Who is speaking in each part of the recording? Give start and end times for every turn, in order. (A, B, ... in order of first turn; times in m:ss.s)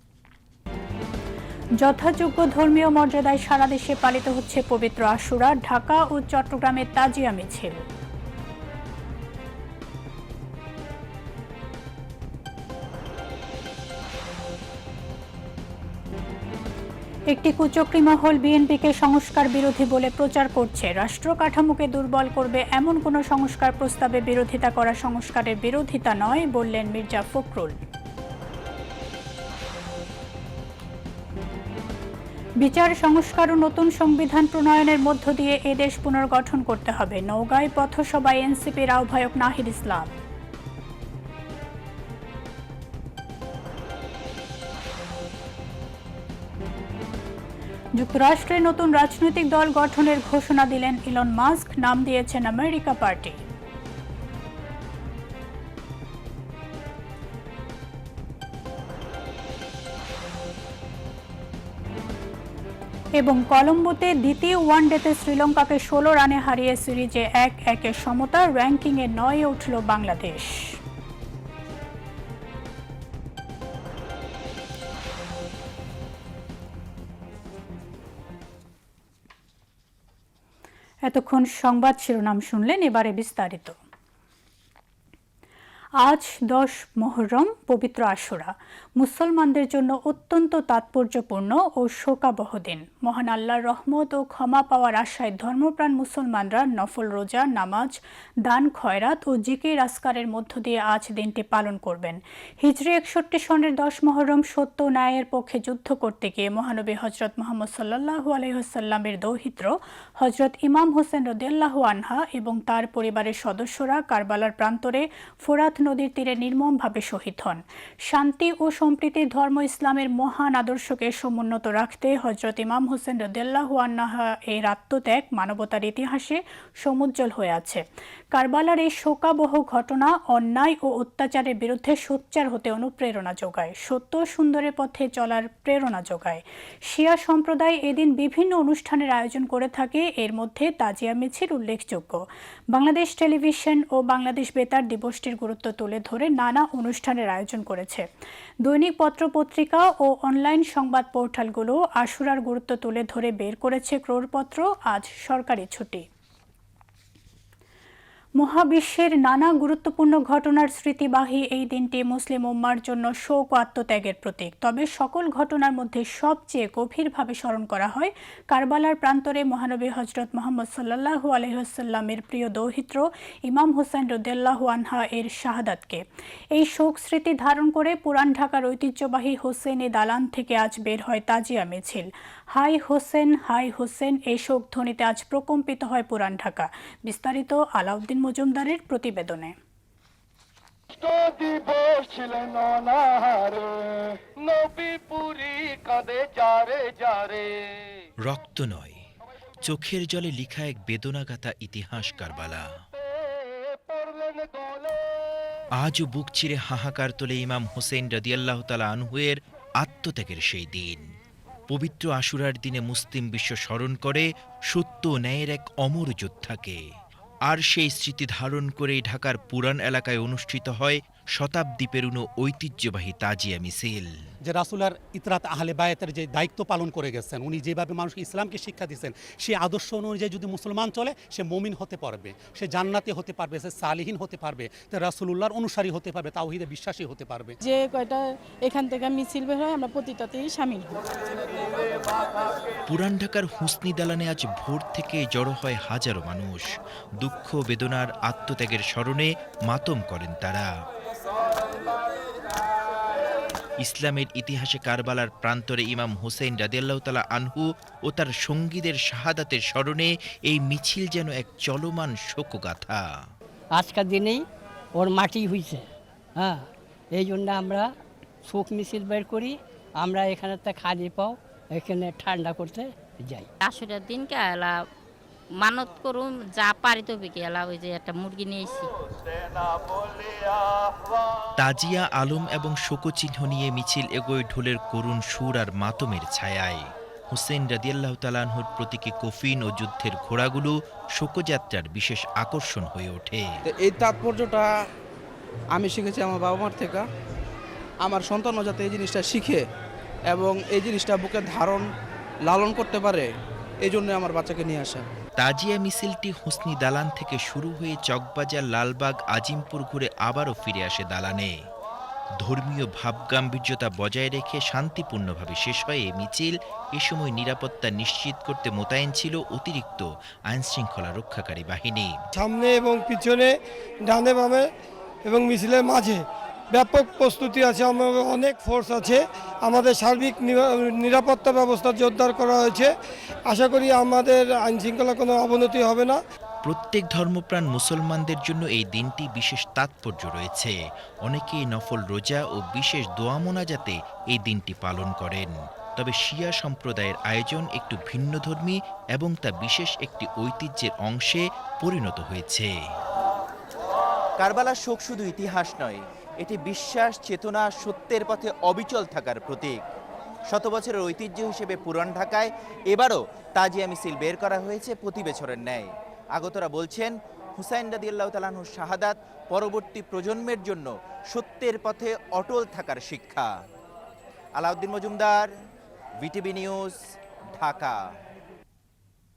0:01.8-0:07.8 A
0:17.3-0:27.8 A
0:32.6-0:40.1 A
0:48.0-0:53.4 A
1:03.2-1:10.8 A
1:21.1-1:23.8 A
1:26.0-2:28.0 A
2:28.6-2:36.1 A
2:38.4-2:56.0 A
2:56.5-3:09.6 A
3:11.0-3:17.5 B
3:18.2-3:19.0 C
3:19.6-3:22.8 C
3:23.7-3:25.0 B
3:25.8-3:31.1 C
3:31.7-3:36.8 C
3:37.5-3:44.2 C
3:44.4-3:57.6 D
3:57.6-4:00.9 E
4:02.9-4:10.7 C
4:13.8-4:23.3 C
4:23.8-4:24.4 F
4:25.0-4:25.8 F
4:26.4-4:27.9 F
4:28.5-4:33.5 F
4:33.6-4:34.8 G
4:35.5-4:38.9 G
4:41.6-4:53.6 C
4:53.7-4:54.7 H
4:55.8-4:57.0 H
4:58.0-4:59.6 H
5:00.3-5:01.8 H
5:02.5-5:03.3 H
5:03.8-5:05.0 H
5:05.4-5:11.5 C
5:12.4-5:22.2 C
5:22.4-5:23.5 I
5:24.1-5:24.6 I
5:25.3-5:26.2 I
5:26.7-5:32.9 I
5:33.5-5:36.2 I
5:36.6-5:52.7 C
5:54.4-5:59.8 J
6:00.5-6:13.6 J
6:14.6-6:15.5 J
6:16.2-6:17.0 J
6:17.6-6:18.1 J